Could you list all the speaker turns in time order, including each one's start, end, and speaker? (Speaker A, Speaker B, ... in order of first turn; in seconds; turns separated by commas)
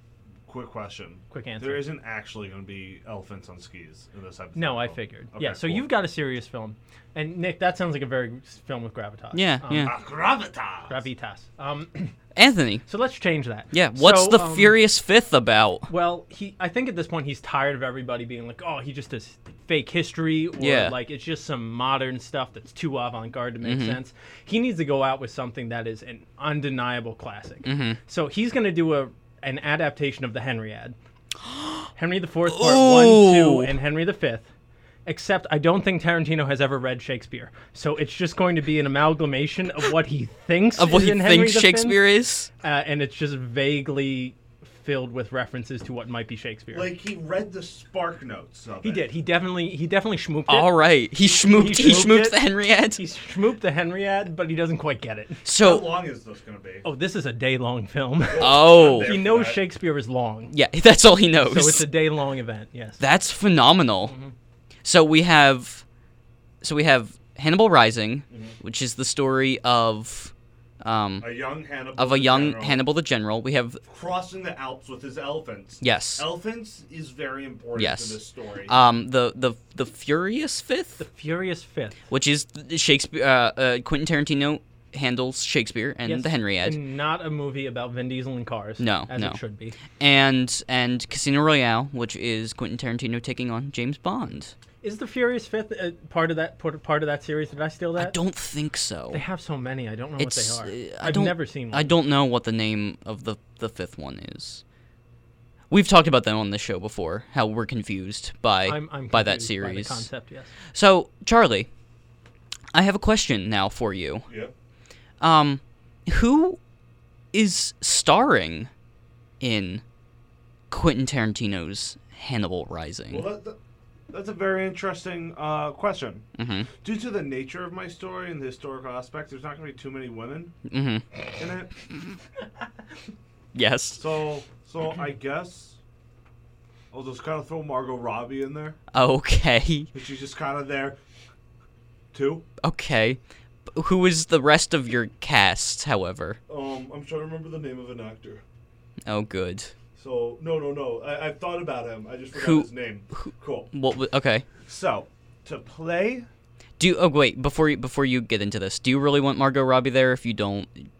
Speaker A: 0.5-5.8, Speaker B: 1.3-1.8, Speaker B: 4.5-9.9, Speaker C: 9.3-9.9, Speaker A: 9.8-11.0, Speaker B: 10.9-12.1, Speaker C: 12.3-12.8, Speaker B: 12.8-14.8, Speaker C: 13.7-15.9, Speaker B: 15.9-30.9, Speaker C: 20.6-20.9, Speaker C: 23.6-24.0, Speaker C: 27.6-28.0, Speaker C: 31.5-31.8, Speaker B: 31.9-34.5, Speaker C: 32.5-33.7, Speaker B: 35.0-42.0, Speaker C: 40.8-42.5, Speaker B: 42.6-46.9, Speaker A: 46.7-49.1, Speaker B: 48.8-52.4, Speaker C: 50.5-53.0, Speaker B: 53.0-55.4, Speaker C: 55.4-55.9, Speaker A: 55.6-56.8, Speaker B: 56.8-60.5, Speaker A: 58.3-59.6, Speaker C: 58.4-59.1, Speaker C: 60.5-61.8, Speaker B: 61.4-63.0, Speaker C: 63.0-64.1, Speaker B: 64.0-64.3, Speaker C: 64.8-65.8, Speaker C: 66.6-71.3, Speaker A: 68.3-68.6, Speaker A: 71.2-72.8, Speaker C: 72.0-73.8, Speaker A: 73.9-78.8, Speaker C: 75.8-76.2, Speaker C: 77.8-81.0, Speaker B: 81.0-82.0, Speaker C: 82.1-86.8, Speaker B: 86.0-89.8, Speaker C: 88.8-89.4, Speaker C: 90.0-94.5, Speaker B: 94.8-98.2, Speaker C: 98.0-99.2, Speaker B: 99.1-101.9, Speaker C: 100.2-104.6, Speaker C: 105.7-110.0, Speaker B: 108.6-110.5, Speaker C: 110.7-111.7, Speaker C: 112.7-114.3, Speaker A: 114.3-114.5, Speaker C: 115.2-116.6, Speaker C: 117.3-118.7, Speaker C: 119.4-119.8, Speaker C: 120.7-123.3, Speaker A: 123.1-123.6, Speaker A: 124.1-126.2, Speaker C: 126.4-126.7, Speaker A: 126.8-130.5, Speaker C: 130.7-131.1, Speaker A: 131.3-131.7, Speaker C: 133.5-134.0, Speaker A: 134.0-135.8, Speaker A: 136.9-138.8, Speaker C: 138.9-139.9, Speaker A: 139.9-141.0, Speaker A: 142.1-142.4, Speaker C: 142.6-143.2, Speaker C: 143.7-146.4, Speaker A: 146.5-148.4, Speaker C: 149.1-149.7, Speaker A: 149.9-153.7, Speaker C: 152.3-154.4, Speaker A: 154.6-156.3, Speaker C: 156.8-160.9